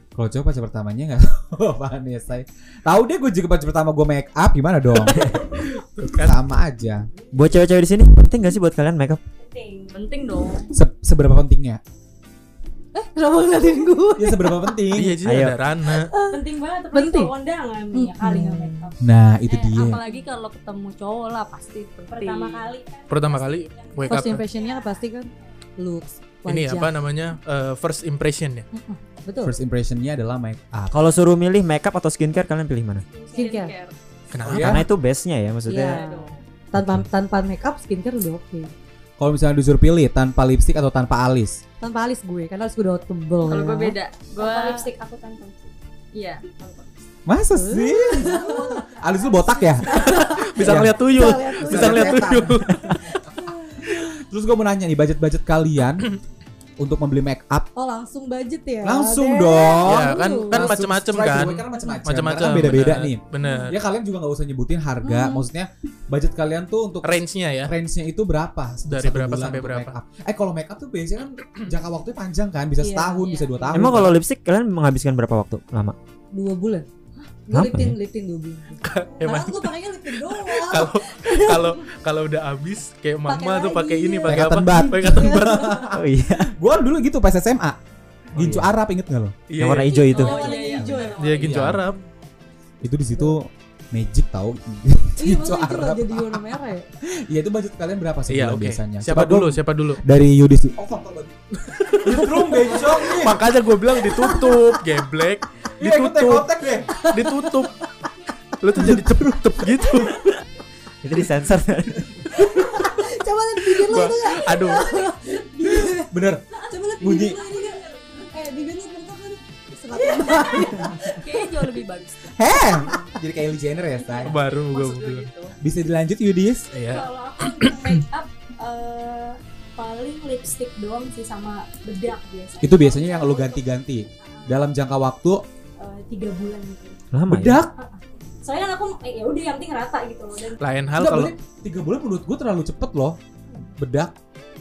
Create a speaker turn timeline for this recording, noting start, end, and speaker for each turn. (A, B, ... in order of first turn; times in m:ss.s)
0:00.2-0:05.3 A
0:05.0-0:05.6 B
0:05.6-0:06.4 C
0:06.0-0:07.1 A
0:07.3-0:09.2 B
0:09.4-0:10.0 D
0:09.9-0:10.7 E
0:10.7-0:11.8 A
0:12.9-0:14.8 F
0:14.2-0:15.2 A
0:14.9-0:16.1 C
0:15.2-0:15.6 B
0:15.8-0:17.3 F
0:16.3-0:19.0 D
0:17.9-0:18.9 F
0:19.0-0:20.0 A
0:19.5-0:22.7 E
0:22.1-0:25.1 D
0:23.1-0:24.4 C
0:24.1-0:26.9 F
0:26.5-0:28.7 C
0:28.7-0:29.6 F
0:29.4-0:31.0 A
0:30.9-0:33.0 B
0:33.0-0:33.6 D
0:33.3-0:33.9 E
0:33.3-0:33.7 F
0:34.3-0:34.8 C
0:34.4-0:34.8 A
0:34.4-0:36.0 B
0:35.6-0:38.7 F
0:35.7-0:36.4 E
0:39.2-0:41.6 A
0:41.8-0:44.0 F
0:43.4-0:44.8 E
0:44.4-0:45.7 D
0:46.1-0:46.9 E
0:47.2-0:56.1 A
0:47.5-0:49.0 F
0:48.2-0:49.6 D
0:49.8-0:54.1 F
0:49.9-0:52.8 C
0:52.7-0:53.0 B
0:56.8-0:57.7 A
0:57.8-1:00.7 F
0:58.8-1:14.2 A
0:59.8-1:03.8 C
1:03.4-1:03.7 F
1:05.0-1:05.4 F
1:07.0-1:07.7 C
1:08.9-1:10.0 C
1:12.8-1:13.7 F
1:13.7-1:16.0 B
1:16.3-1:16.8 F
1:17.4-1:21.8 F
1:17.5-1:18.0 B
1:18.8-1:19.7 C
1:18.9-1:19.1 D
1:20.2-1:25.8 C
1:23.2-1:25.7 F
1:24.3-1:27.8 A
1:25.9-1:26.5 B
1:28.3-1:29.4 A
1:28.4-1:28.7 C
1:29.5-1:30.1 C
1:29.6-1:30.4 B
1:29.9-1:31.5 D
1:30.1-1:31.4 E
1:30.3-1:31.1 F
1:30.7-1:31.8 A
1:31.2-1:32.0 C
1:32.8-1:41.4 A
1:35.2-1:36.9 F
1:38.3-1:40.0 C
1:41.6-1:47.8 C
1:42.0-1:43.5 A
1:44.0-1:44.7 F
1:45.8-1:47.0 A
1:46.9-1:47.7 F
1:48.6-1:50.3 C
1:48.7-1:49.2 A
1:51.0-1:52.3 B
1:52.3-1:56.1 F
1:53.8-1:54.9 C
1:55.9-1:56.4 A
1:56.7-2:01.4 F
1:56.7-1:58.5 D
1:57.0-1:57.4 A
1:59.9-2:00.7 D
2:00.9-2:02.4 E
2:02.4-2:04.4 A
2:02.5-2:03.0 F
2:04.0-2:05.6 E
2:04.2-2:05.3 C
2:05.6-2:06.7 A
2:06.7-2:08.0 C
2:06.8-2:13.7 D
2:12.6-2:15.4 A
2:14.2-2:14.6 D
2:15.8-2:17.0 D
2:17.1-2:17.6 B
2:17.3-2:17.7 A
2:17.7-2:20.6 D
2:20.6-2:21.3 C
2:20.9-2:24.1 A